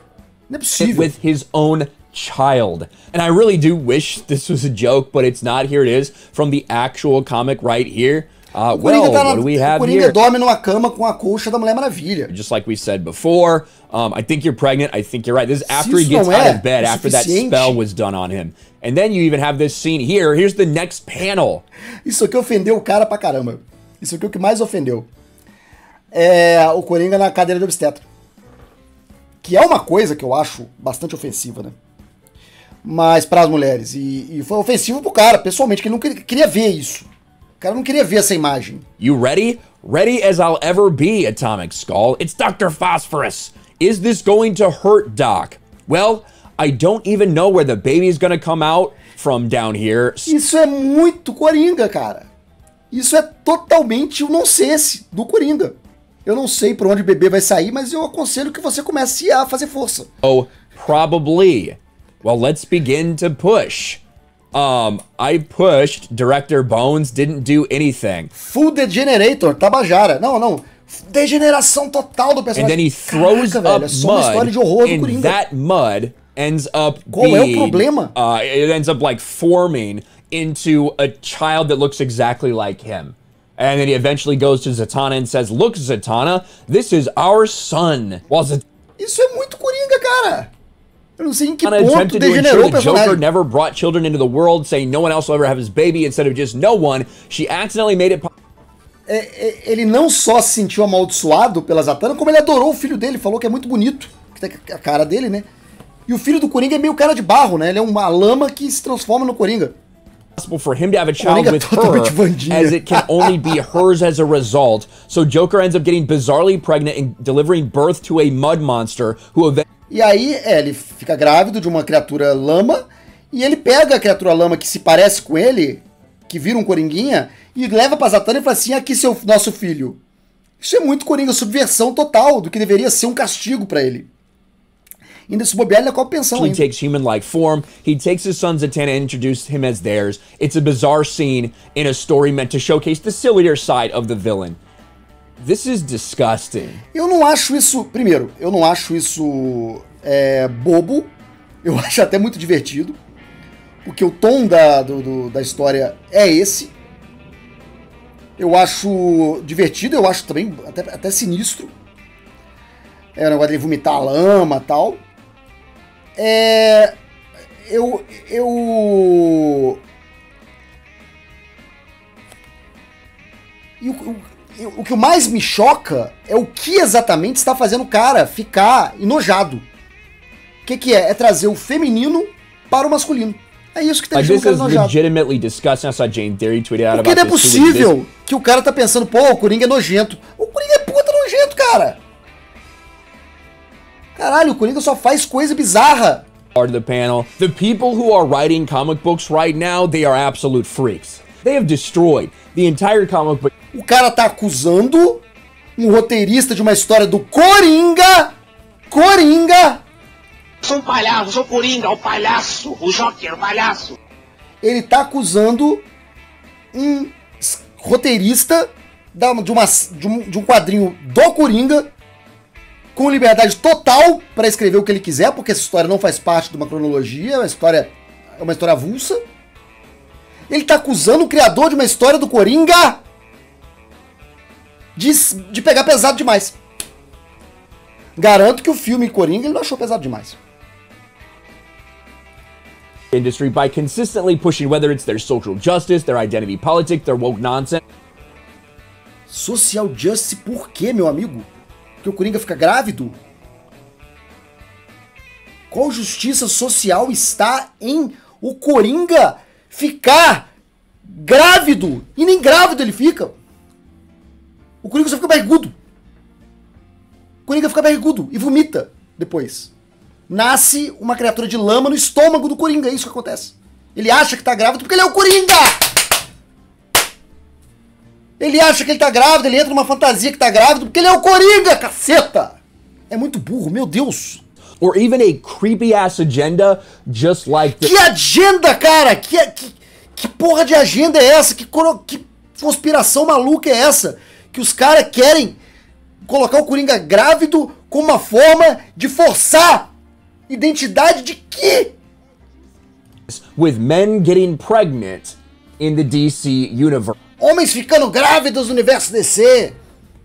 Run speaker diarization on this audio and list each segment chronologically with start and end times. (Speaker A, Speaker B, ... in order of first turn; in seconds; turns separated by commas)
Speaker A: 0.5-1.1, Speaker B: 0.8-10.2, Speaker A: 8.7-12.3, Speaker B: 12.3-21.6, Speaker A: 15.7-17.8, Speaker A: 22.1-25.1, Speaker A: 26.1-28.1, Speaker A: 29.4-31.8, Speaker A: 32.8-37.1, Speaker A: 37.6-38.9, Speaker B: 39.0-50.3, Speaker A: 50.3-52.3, Speaker A: 52.9-60.1, Speaker B: 60.2-64.0, Speaker B: 64.5-68.3, Speaker A: 68.4-75.4, Speaker B: 72.5-88.6, Speaker A: 77.1-78.1, Speaker A: 89.0-90.5, Speaker A: 91.2-93.2, Speaker B: 91.6-98.3, Speaker A: 99.1-105.5, Speaker A: 106.1-109.8, Speaker B: 110.4-119.7, Speaker A: 111.2-113.5, Speaker A: 119.9-130.0, Speaker A: 130.6-134.1, Speaker A: 135.3-136.7, Speaker B: 136.3-144.6, Speaker B: 145.4-146.8, Speaker A: 146.9-151.1, Speaker A: 151.6-153.0, Speaker A: 153.8-156.7, Speaker A: 158.4-161.7, Speaker A: 163.2-165.0, Speaker A: 166.2-166.9, Speaker A: 167.7-169.8, Speaker A: 173.8-179.7, Speaker A: 180.7-184.9, Speaker B: 184.2-187.9, Speaker A: 186.9-192.0, Speaker A: 194.2-196.3, Speaker B: 196.6-203.5, Speaker A: 203.7-205.2, Speaker A: 205.8-208.3, Speaker A: 208.9-209.8, Speaker C: 210.6-214.0, Speaker A: 214.6-215.8, Speaker A: 216.7-221.9, Speaker A: 222.9-229.2, Speaker A: 230.5-233.0, Speaker A: 235.0-236.6, Speaker A: 238.2-240.4, Speaker B: 243.1-247.8, Speaker A: 249.3-251.5, Speaker A: 252.0-253.2, Speaker A: 255.7-260.5, Speaker A: 261.0-263.3, Speaker A: 264.8-265.8, Speaker A: 267.5-269.7, Speaker A: 270.3-275.9, Speaker A: 278.4-282.6, Speaker A: 283.1-284.4, Speaker B: 284.8-287.9, Speaker A: 287.7-295.6, Speaker A: 296.3-299.9, Speaker A: 300.5-301.9, Speaker B: 303.3-307.1, Speaker A: 307.4-309.8